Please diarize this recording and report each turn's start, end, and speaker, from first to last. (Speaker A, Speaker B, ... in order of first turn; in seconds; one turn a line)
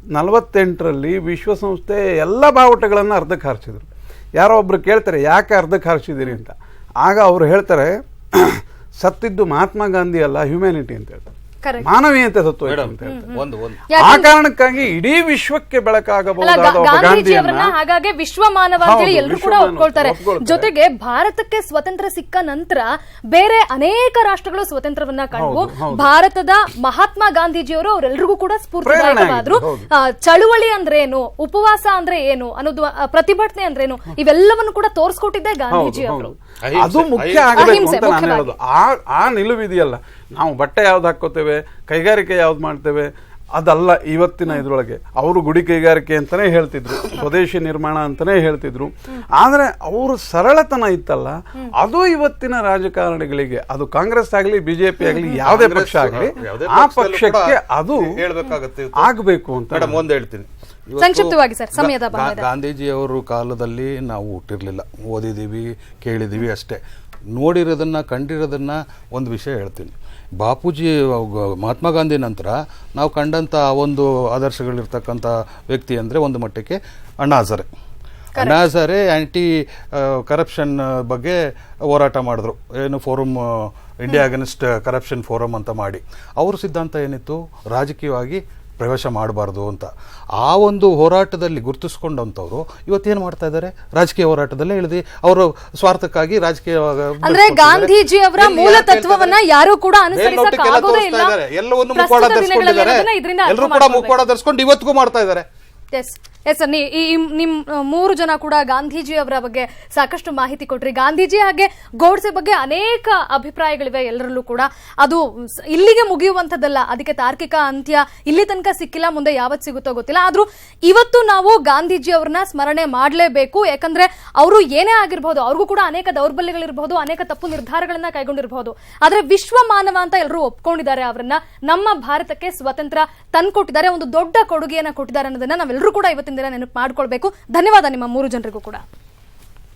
Speaker A: 0.1-11.3
Speaker B: 11.6-11.9
Speaker A: 11.8-13.3
Speaker C: 12.7-13.8
Speaker B: 13.0-14.3
Speaker A: 14.0-17.7
Speaker B: 16.4-36.3
Speaker A: 18.8-20.7
Speaker A: 25.4-26.1
Speaker A: 28.9-29.9
Speaker A: 35.7-58.2
Speaker C: 36.6-37.8
Speaker B: 37.5-38.5
Speaker B: 55.0-55.4
Speaker C: 55.4-59.1
Speaker A: 59.0-60.0
Speaker C: 59.7-66.8
Speaker B: 61.0-62.5
Speaker C: 67.3-77.7
Speaker B: 78.3-78.6
Speaker C: 78.4-81.4
Speaker C: 81.9-99.4
Speaker B: 97.2-101.4
Speaker C: 100.1-105.5
Speaker B: 101.9-104.2
Speaker B: 105.9-138.8